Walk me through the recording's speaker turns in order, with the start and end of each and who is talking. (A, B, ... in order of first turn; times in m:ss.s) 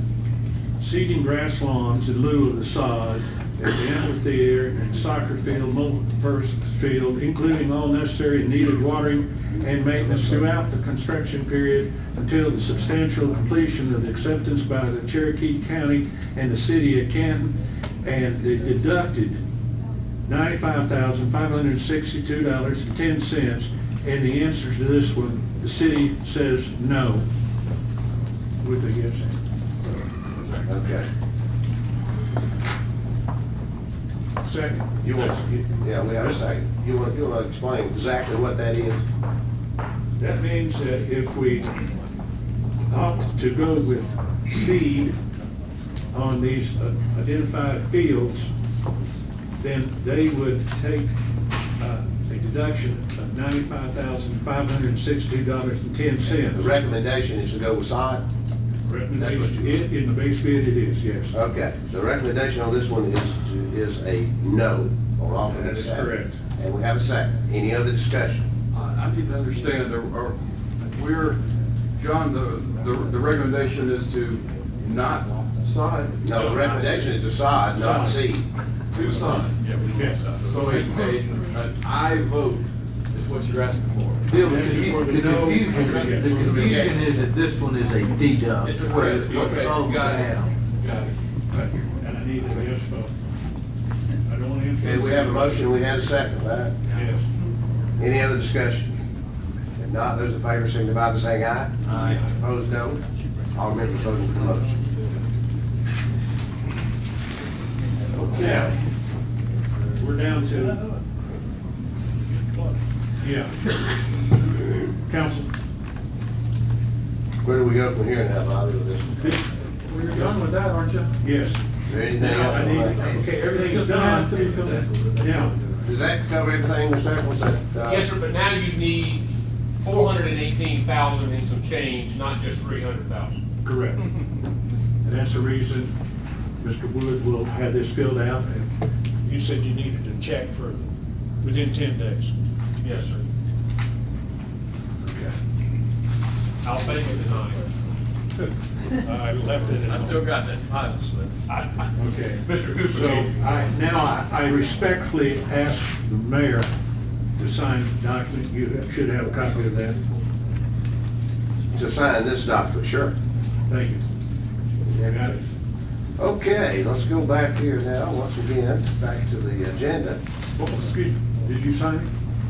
0:00.8-0:17.5 A
0:18.0-0:19.4 A
0:20.2-0:27.2 A
0:28.6-0:29.4 A
0:30.4-0:30.6 B
0:30.6-0:31.1 C
0:34.4-0:35.0 A
0:35.0-0:39.0 C
0:40.2-0:41.8 A
0:42.9-0:45.2 A
0:46.1-0:48.5 A
0:49.6-0:51.1 A
0:51.8-0:56.8 A
0:56.4-0:58.2 C
0:58.9-1:01.4 A
0:59.2-0:59.8 C
1:01.3-1:08.5 C
1:05.5-1:06.4 A
1:08.7-1:11.4 D
1:12.0-1:17.0 D
1:16.2-1:18.5 C
1:17.8-1:18.2 A
1:18.9-1:19.6 D
1:19.9-1:20.7 A
1:20.4-1:27.0 D
1:24.3-1:30.6 E
1:24.4-1:26.9 A
1:26.6-1:27.0 C
1:28.6-1:31.2 D
1:29.3-1:29.7 A
1:31.5-1:33.1 A
1:34.3-1:35.9 A
1:34.8-1:36.8 C
1:36.9-1:37.2 A
1:38.0-1:38.9 C
1:39.8-1:43.0 C
1:41.9-1:42.2 E
1:43.6-1:44.9 C
1:48.1-1:48.8 A
1:48.4-1:48.7 C
1:50.0-1:50.8 A
1:53.2-1:53.6 A
1:55.1-1:55.5 A
1:57.4-1:59.4 C
1:59.2-1:59.5 A
1:59.9-2:01.2 F
2:00.0-2:00.6 A
2:01.2-2:01.6 A
2:01.9-2:03.3 C
2:02.1-2:05.6 A
2:03.6-2:05.1 F
2:05.8-2:08.1 C
2:07.8-2:09.2 B
2:09.8-2:13.4 B
2:13.6-2:14.1 A
2:15.0-2:15.9 A
2:16.6-2:18.7 A
2:19.2-2:20.9 A
2:21.4-2:22.3 A
2:22.8-2:23.2 B
2:26.6-2:27.7 B
2:28.9-2:30.3 A
2:29.9-2:31.3 D
2:31.5-2:33.4 B
2:32.0-2:36.7 A
2:37.4-2:40.0 A
2:41.7-2:43.1 C
2:43.7-2:44.0 A
2:44.9-2:45.2 C
2:45.0-2:45.4 A
2:46.2-2:50.2 C
2:50.6-2:52.1 A